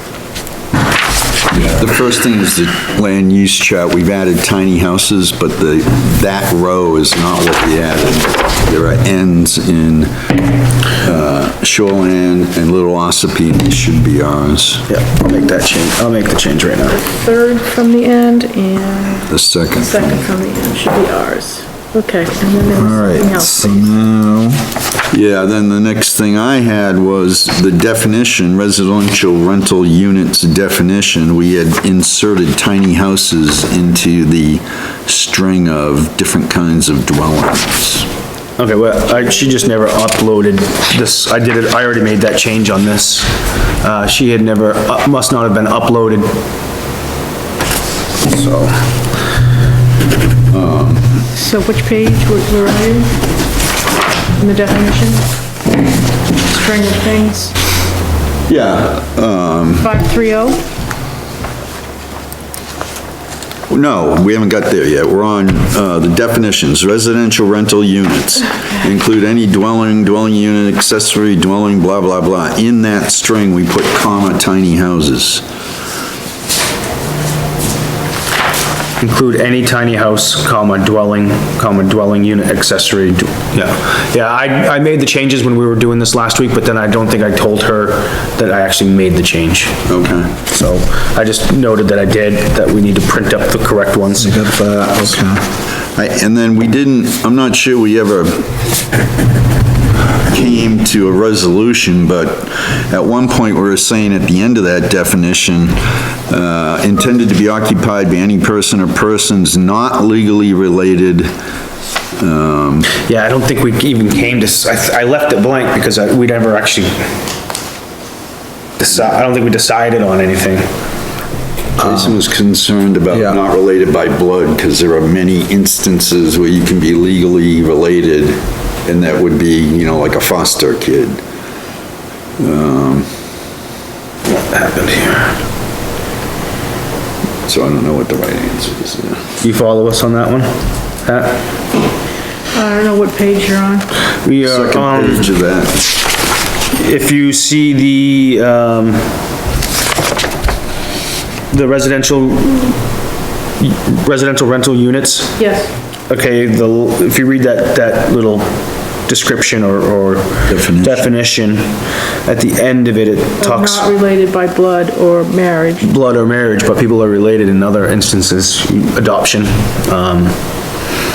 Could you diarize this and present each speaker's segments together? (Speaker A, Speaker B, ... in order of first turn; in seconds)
Speaker A: 1.5-10.1, 11.0-14.9, 19.3-20.3, 25.1-38.1, 50.5-51.2, 58.5-59.9, 63.7-75.4, 89.9-90.3, 96.0-98.5, 100.2-111.3, 112.2-112.9, 121.8-131.2, 132.4-133.1, 137.5-139.2, 144.4-145.9, 160.5-161.1
Speaker B: 14.9-17.0, 38.6-46.4, 48.2-48.9, 79.0-89.8, 90.5-94.5, 112.9-117.2, 118.8-120.7, 134.3-135.4, 139.4-141.4, 144.2-145.3, 146.7-149.2, 151.5-152.8, 153.6-155.4, 156.1-163.9, 165.8-170.4
Speaker C: 17.0-24.0, 51.4-53.1, 54.4-55.2, 56.5-57.5, 59.8-60.6, 142.5-143.9, 155.4-155.7, 163.4-165.9
Speaker D: 22.8-24.6, 94.2-95.4, 123.1-123.4